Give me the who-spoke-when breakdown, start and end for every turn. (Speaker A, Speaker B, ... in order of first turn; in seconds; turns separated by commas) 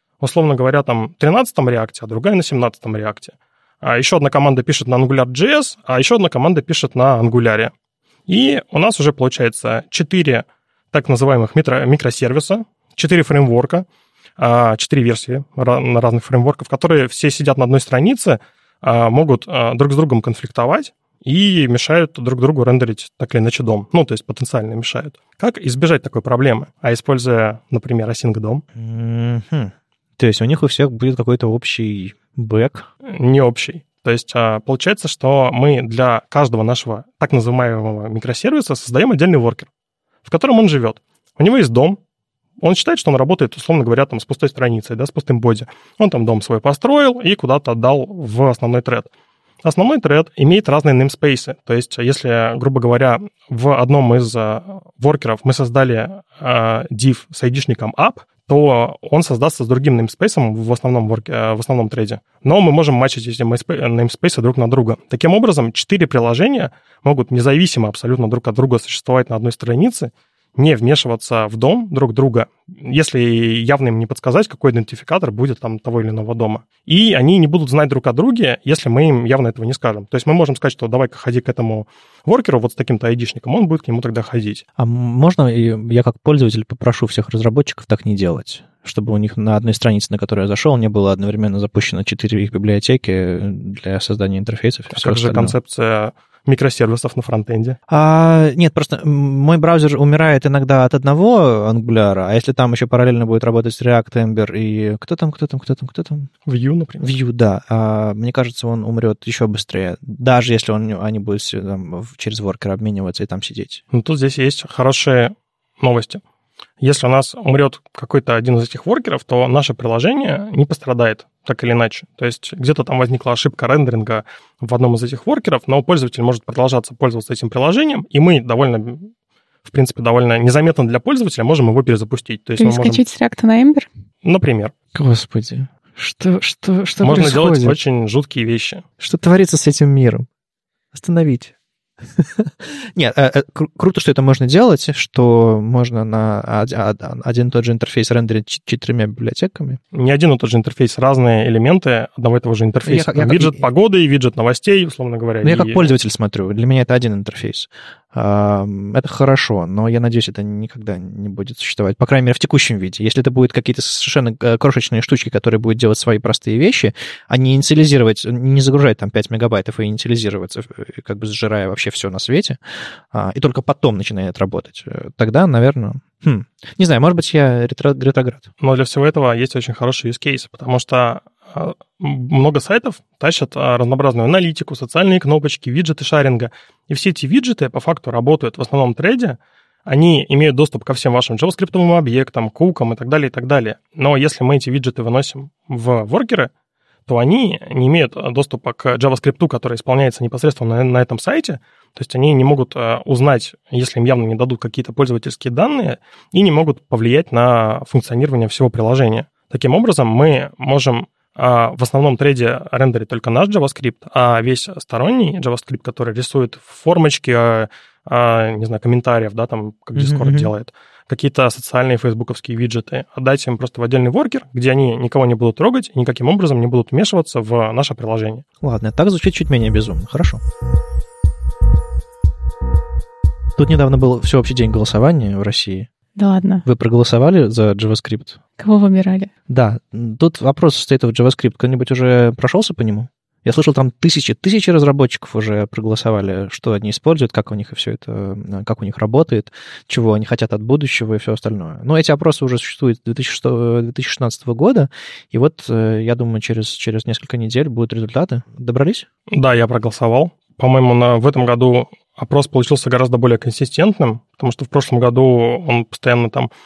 Speaker A: 0.2-7.7, Speaker A: 8.3-13.9, Speaker A: 14.4-28.6, Speaker B: 28.8-32.9, Speaker A: 33.0-39.7, Speaker A: 40.2-42.0, Speaker A: 42.6-49.1, Speaker A: 49.6-84.6, Speaker B: 84.8-95.6, Speaker A: 94.9-97.8, Speaker B: 97.9-106.3, Speaker A: 106.5-107.1, Speaker B: 107.0-113.8, Speaker A: 113.9-116.2, Speaker A: 116.8-129.1, Speaker A: 129.7-133.0, Speaker C: 132.6-133.9, Speaker A: 134.2-134.7, Speaker B: 134.9-137.8, Speaker A: 137.0-138.8, Speaker B: 139.0-140.3, Speaker B: 140.9-141.6, Speaker B: 142.2-149.8, Speaker A: 149.9-155.9, Speaker B: 152.8-153.6, Speaker B: 155.4-172.6, Speaker B: 173.1-178.5, Speaker A: 178.6-196.5, Speaker A: 197.1-228.4, Speaker B: 220.0-220.5, Speaker B: 228.6-230.4, Speaker B: 233.6-235.9, Speaker C: 236.2-236.7, Speaker B: 236.7-238.4, Speaker C: 238.6-239.3, Speaker B: 239.5-259.1, Speaker A: 259.3-266.5